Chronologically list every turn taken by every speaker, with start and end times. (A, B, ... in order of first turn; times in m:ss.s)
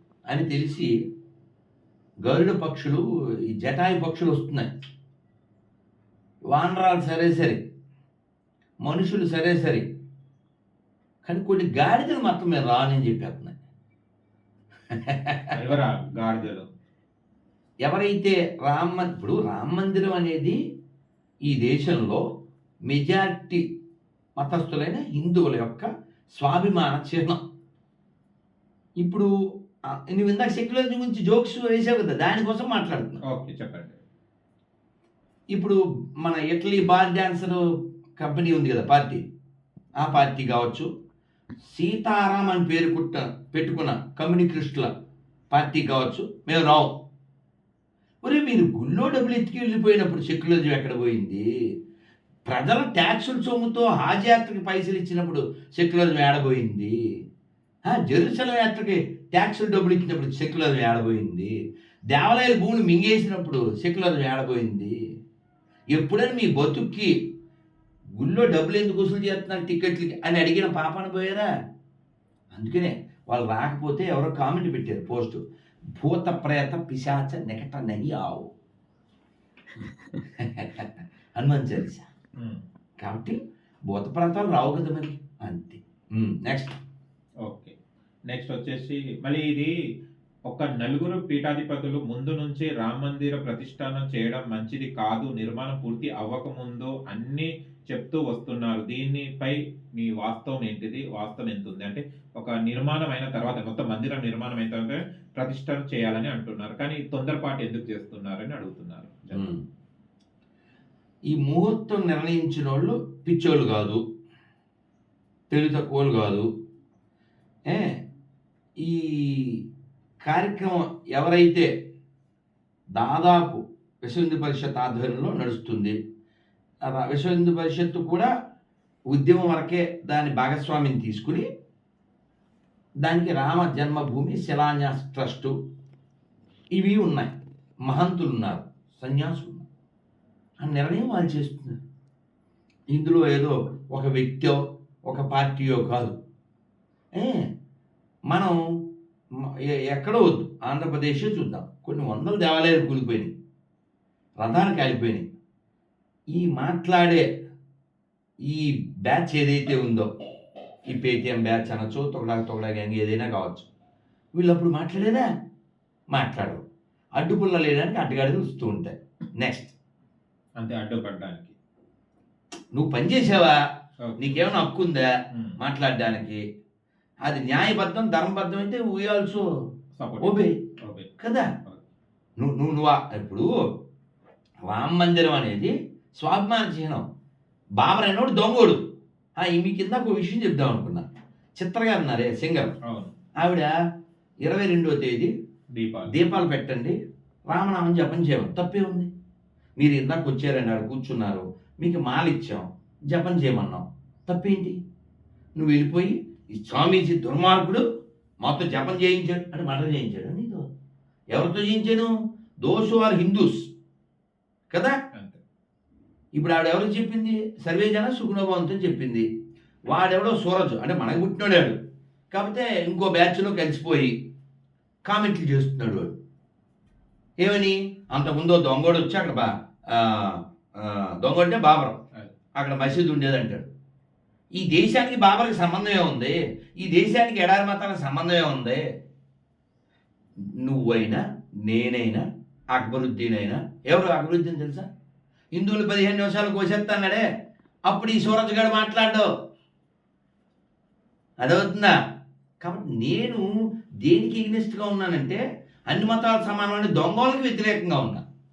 0:00.3-0:00.9 A
0:02.2-0:03.0 A
0:03.5-0:04.7 A
0:06.5-0:07.6 A
0:08.8-0:09.9 A
0:11.2-0:13.6 A
0:14.9-0:15.6 A
0:15.5-0:16.7 B
0:17.8-0:20.6 A
0:21.5-0:22.2 A
0:22.9-0:23.7 A
0:24.4-0:27.4 A
0:29.0-0:29.3 A
0:29.9-0:33.2 A
0:33.2-0:34.0 B
0:35.5-0:37.6 A
0:38.2-0:39.2 A
0:40.0-0:40.9 A
0:41.7-0:44.9 A
0:45.5-0:47.0 A
0:48.2-0:51.4 A
0:52.5-0:57.0 A
0:57.9-1:01.5 A
1:02.1-1:04.9 A
1:05.9-1:07.2 A
1:08.2-1:11.5 A
1:12.5-1:15.4 A
1:16.0-1:18.5 A
1:20.2-1:22.1 A
1:22.4-1:22.6 B
1:23.0-1:26.8 A
1:27.4-1:27.8 B
1:28.3-1:29.7 B
1:30.5-1:49.5 B
1:49.3-1:49.6 A
1:51.3-1:54.0 A
1:55.5-1:56.5 A
1:58.8-1:59.6 A
2:00.2-2:01.7 A
2:03.0-2:06.0 A
2:06.8-2:08.3 A
2:09.1-2:11.5 A
2:13.0-2:15.5 A
2:16.7-2:17.3 A
2:17.9-2:19.6 A
2:20.6-2:21.8 A
2:22.9-2:26.2 A
2:27.2-2:27.5 A
2:28.3-2:28.6 A
2:29.4-2:33.3 A
2:34.4-2:35.3 A
2:36.3-2:37.3 A
2:38.5-2:40.1 A
2:40.9-2:43.7 A
2:44.4-2:45.3 A
2:46.1-2:46.6 A
2:47.2-2:49.8 A
2:50.6-2:51.6 B
2:52.7-2:53.6 A
2:54.0-2:54.5 B
2:54.2-2:55.1 A
2:55.3-2:55.6 B
2:55.6-2:56.4 A
2:57.2-2:59.4 A
3:00.0-3:01.1 B
3:00.2-3:00.6 A
3:01.2-3:01.5 A
3:02.4-3:03.5 A
3:04.6-3:07.0 A
3:07.8-3:08.8 A
3:09.4-3:11.1 A
3:11.6-3:12.8 A
3:12.8-3:13.1 B
3:13.4-3:13.7 A
3:14.4-3:15.3 A
3:15.7-3:16.1 B
3:16.1-3:17.0 A
3:17.5-3:19.1 A
3:19.8-3:24.8 A
3:25.6-3:27.8 A
3:28.4-3:30.7 A
3:31.3-3:33.7 A
3:34.7-3:35.0 A
3:35.1-3:35.4 B
3:36.4-3:39.3 A
3:39.9-3:41.8 A
3:42.3-3:44.2 A
3:45.0-3:46.2 A
3:47.4-3:52.0 A
3:52.6-3:53.7 A
3:54.6-3:58.8 A
4:00.6-4:04.9 A
4:05.5-4:07.3 A
4:07.9-4:09.3 A
4:11.4-4:12.0 A
4:12.6-4:13.4 A
4:14.0-4:18.2 A